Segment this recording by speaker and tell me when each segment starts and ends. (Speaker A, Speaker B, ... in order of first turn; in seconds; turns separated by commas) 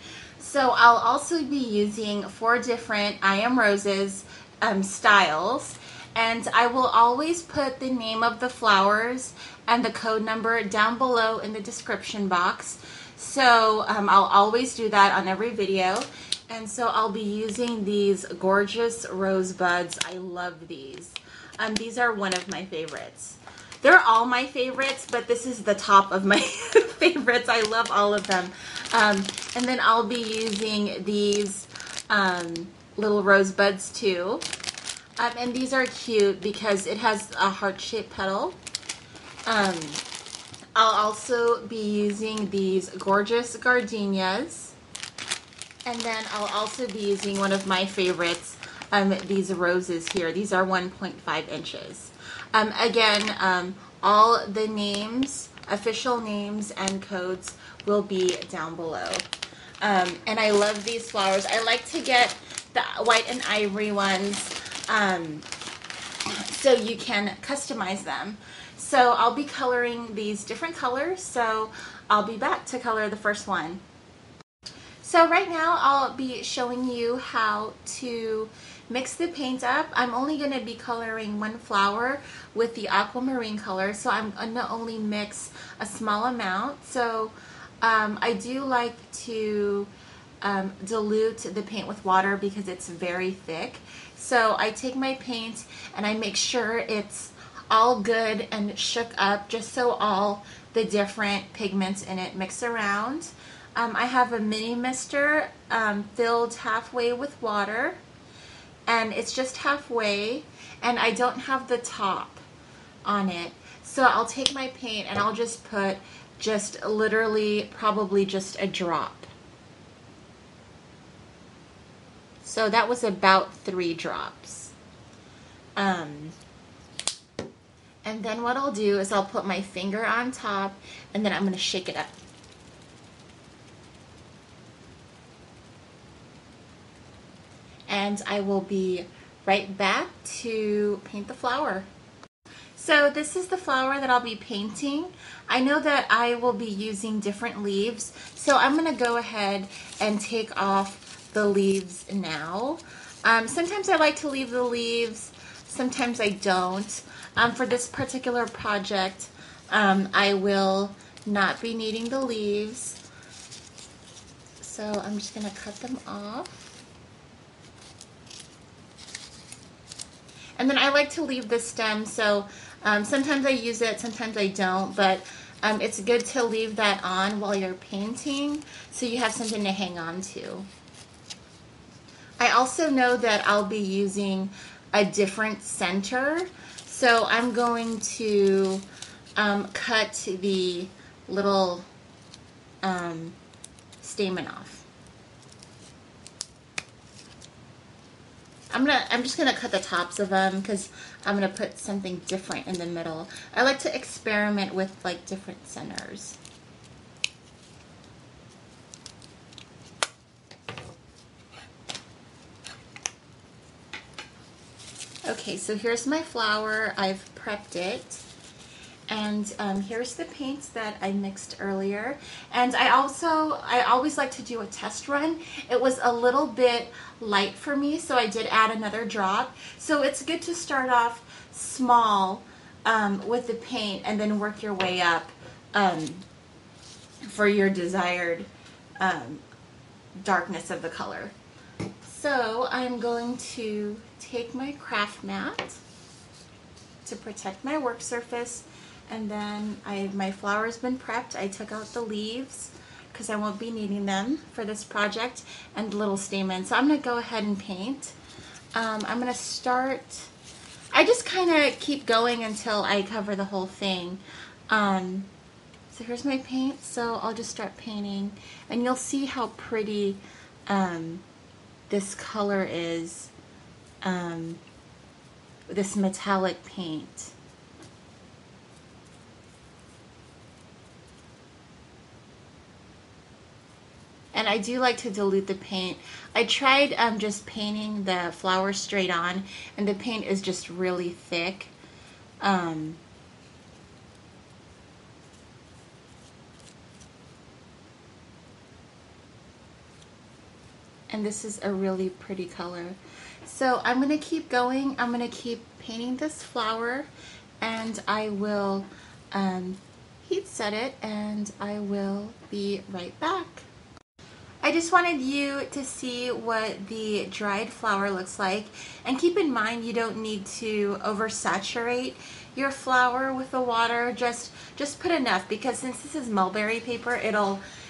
Speaker A: 0.4-34.5, Speaker A: 35.2-38.6, Speaker A: 39.5-40.1, Speaker A: 40.8-44.8, Speaker A: 45.9-59.3, Speaker A: 59.8-65.5, Speaker A: 66.2-73.8, Speaker A: 75.0-108.0, Speaker A: 108.9-112.4, Speaker A: 113.0-119.3, Speaker A: 122.4-124.7, Speaker A: 125.8-126.3, Speaker A: 128.0-132.2, Speaker A: 137.9-141.9, Speaker A: 142.8-163.0, Speaker A: 164.6-166.8, Speaker A: 170.6-180.7, Speaker A: 182.4-188.9, Speaker A: 189.4-191.9, Speaker A: 192.8-193.4, Speaker A: 194.0-194.9, Speaker A: 198.7-206.4, Speaker A: 215.3-218.2, Speaker A: 219.1-236.3, Speaker A: 237.3-238.5, Speaker A: 239.0-239.4, Speaker A: 240.2-241.3, Speaker A: 242.0-245.8, Speaker A: 247.0-258.1, Speaker A: 258.8-260.3, Speaker A: 260.9-265.3, Speaker A: 265.9-271.2, Speaker A: 271.9-273.3, Speaker A: 274.0-274.6, Speaker A: 275.7-277.4, Speaker A: 284.3-291.7, Speaker A: 292.4-293.0, Speaker A: 301.1-307.1, Speaker A: 307.6-313.7, Speaker A: 314.6-327.6